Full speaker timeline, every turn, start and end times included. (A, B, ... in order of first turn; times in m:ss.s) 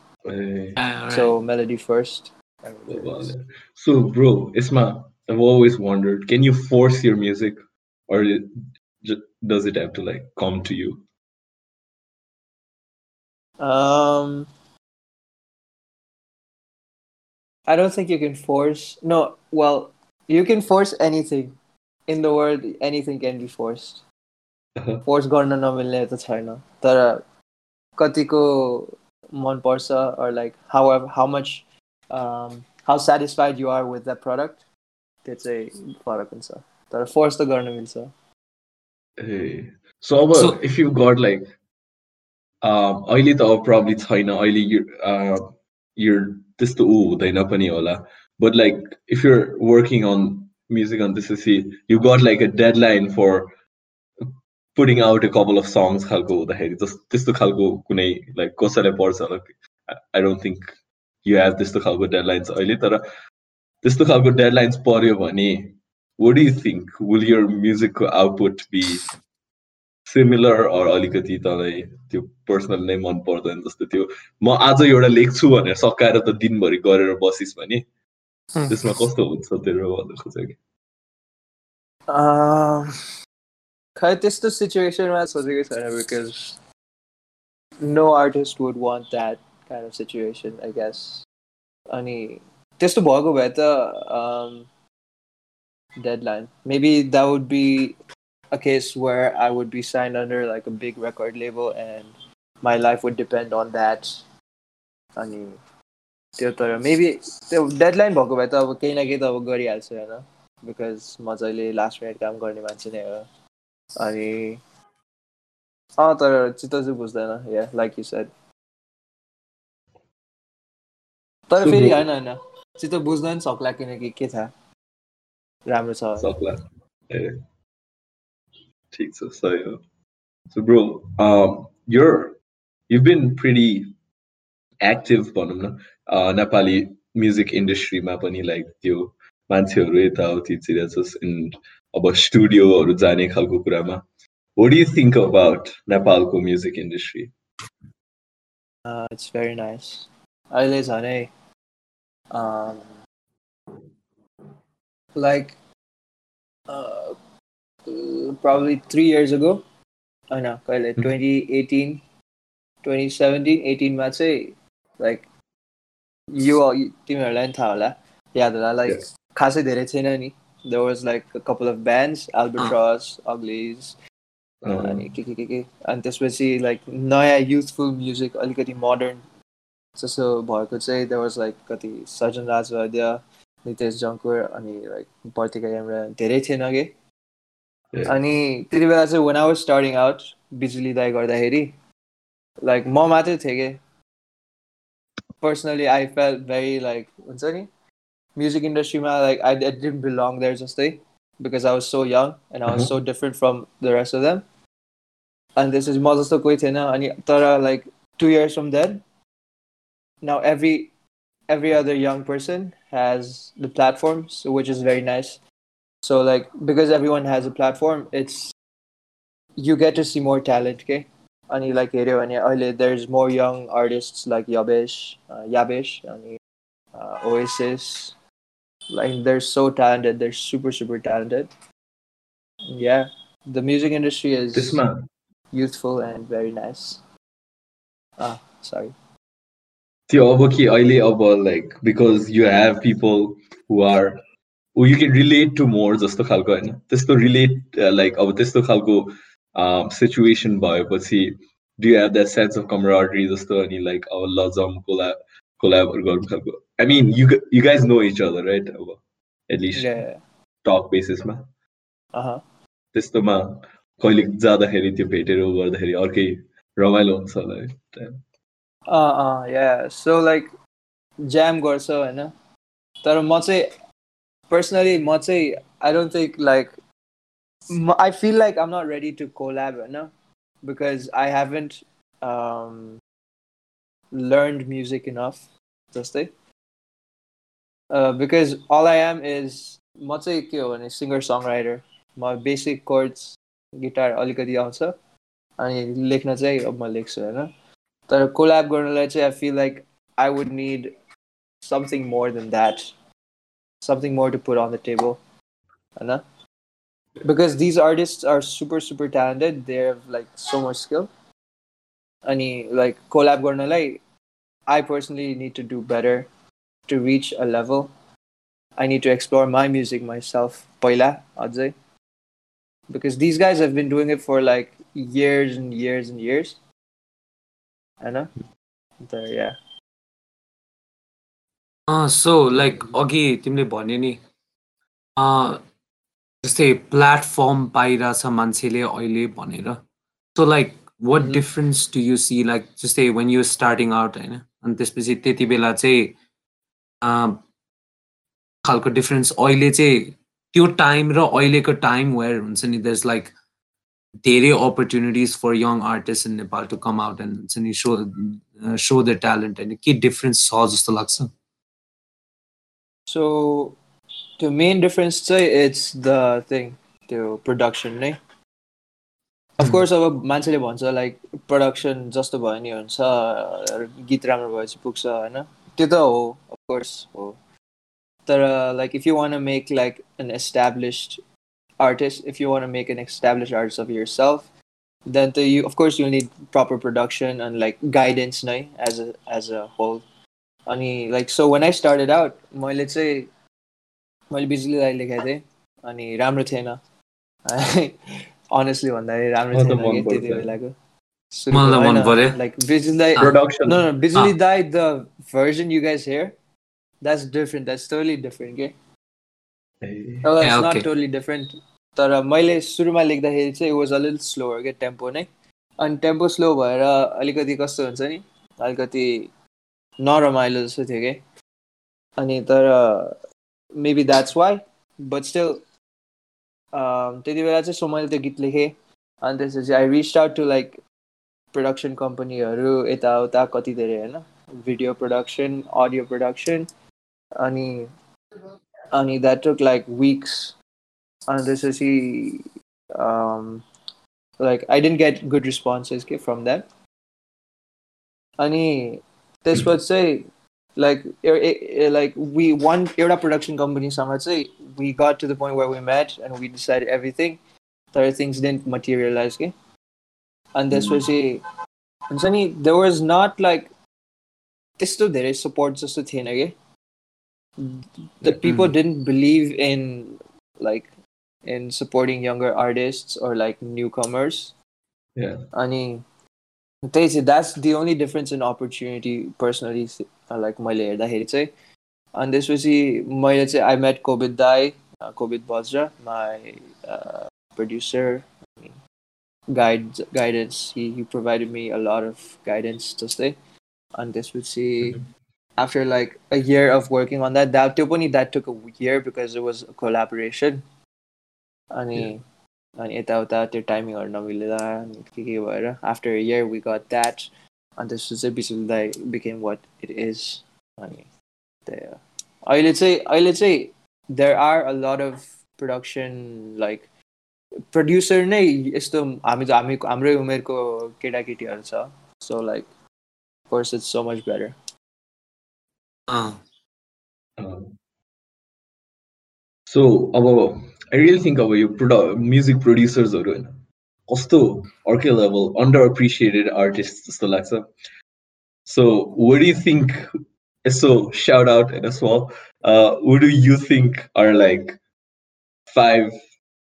0:00.2-0:00.8 A
0:00.8-0:01.3 B
0:01.1-0:03.3 C
0:02.9-0:11.0 A
0:13.6-0:14.5 C
0:17.7-0:21.6 C
0:22.1-0:24.0 C
0:25.0-0:27.2 C
0:28.0-0:34.6 C
0:35.2-0:38.1 C
0:39.2-0:41.5 A
0:42.6-0:53.5 A
0:54.2-1:03.0 A
1:03.8-1:09.0 A
1:10.1-1:17.8 A
1:18.7-1:20.6 A
1:22.1-1:22.9 C
1:24.0-1:26.6 C
1:27.8-1:31.2 C
1:31.9-1:34.7 C
1:36.0-1:38.0 C
1:38.5-1:44.2 C
1:45.2-1:45.6 C
1:46.4-1:53.3 C
1:54.0-1:54.6 C
1:56.0-1:58.3 C
2:01.5-2:04.5 C
2:01.6-2:02.0 A
2:05.6-2:06.3 C
2:06.2-2:07.4 A
2:08.9-2:09.8 A
2:10.5-2:12.4 A
2:12.9-2:13.9 A
2:14.8-2:24.0 A
2:24.6-2:27.3 A
2:28.8-2:31.3 C
2:32.3-2:33.0 C
2:35.1-2:35.6 C
2:36.7-2:37.2 C
2:37.8-2:39.6 C
2:40.3-2:42.0 C
2:42.8-2:45.2 C
2:46.3-2:54.0 C
2:54.6-2:55.1 A
2:54.7-2:59.2 C
3:00.0-3:06.9 C
3:08.0-3:11.8 C
3:12.6-3:13.8 C
3:15.4-3:17.7 C
3:18.4-3:24.4 C
3:25.6-3:29.0 C
3:30.2-3:30.9 C
3:31.5-3:35.4 C
3:36.0-3:38.5 C
3:39.6-3:46.4 C
3:46.9-3:48.1 C
3:48.9-3:51.5 C
3:52.7-3:54.8 C
3:54.5-3:55.1 A
3:55.5-3:57.0 C
3:58.2-3:58.9 C
4:00.1-4:04.2 A
4:04.7-4:19.9 A
4:19.7-4:20.2 C
4:20.6-4:21.5 A
4:22.1-4:22.4 C
4:22.9-4:28.2 A
4:28.9-4:30.5 C
4:31.2-4:32.3 C
4:33.0-4:33.7 C
4:34.5-4:36.7 C
4:37.7-4:40.1 C
4:40.6-4:43.0 C
4:44.1-4:46.3 C
4:47.9-4:54.9 C
4:55.6-4:57.5 C
4:58.1-5:00.9 C
5:01.6-5:02.9 C
5:03.8-5:05.2 C
5:06.0-5:06.2 C
5:07.2-5:11.1 C
5:12.2-5:14.0 C
5:14.7-5:16.3 C
5:16.9-5:17.9 C
5:18.8-5:21.7 C
5:22.9-5:26.6 C
5:28.0-5:28.3 C
5:29.0-5:29.6 C
5:31.9-5:34.2 B
5:35.2-5:35.6 B
5:36.4-5:39.8 B
5:40.3-5:46.1 B
5:47.0-5:47.4 B
5:48.6-5:53.3 B
5:54.2-6:01.3 B
6:03.1-6:03.8 C
6:04.4-6:08.2 C
6:09.6-6:17.4 C
6:18.2-6:21.2 C
6:21.8-6:24.5 C
6:25.1-6:30.0 C
6:30.7-6:33.3 C
6:34.3-6:36.8 C
6:37.4-6:40.7 C
6:39.5-6:40.5 A
6:41.3-6:46.3 C
6:41.5-6:42.4 B
6:43.2-6:43.8 A
6:47.0-6:48.7 C
6:49.8-6:50.2 A
6:50.2-6:59.3 C
6:50.4-6:50.8 B
7:00.0-7:01.2 C
7:02.2-7:03.1 C
7:03.7-7:05.6 C
7:06.7-7:10.8 C
7:11.5-7:16.7 C
7:17.4-7:17.9 C
7:18.9-7:20.5 C
7:21.3-7:22.4 C
7:23.0-7:23.6 C
7:24.4-7:26.7 C
7:28.4-7:37.4 C
7:37.9-7:39.5 C
7:40.5-7:41.4 C
7:42.1-7:43.7 C
7:44.8-7:46.5 C
7:47.6-7:50.9 C
7:48.4-7:48.7 B
7:51.4-7:54.5 C
7:55.2-7:55.5 A
7:55.5-7:56.0 C
7:56.9-8:01.5 C
8:02.1-8:08.8 C
8:09.5-8:13.4 C
8:13.9-8:15.0 C
8:15.6-8:20.6 C
8:21.7-8:22.2 C
8:22.8-8:31.1 C
8:31.7-8:36.9 C
8:37.7-8:42.7 C
8:43.5-8:44.5 C
8:46.1-8:46.4 B
8:47.4-8:47.8 A
8:49.7-8:57.7 A
8:58.6-9:00.1 A
9:00.6-9:04.8 A
9:05.7-9:06.2 A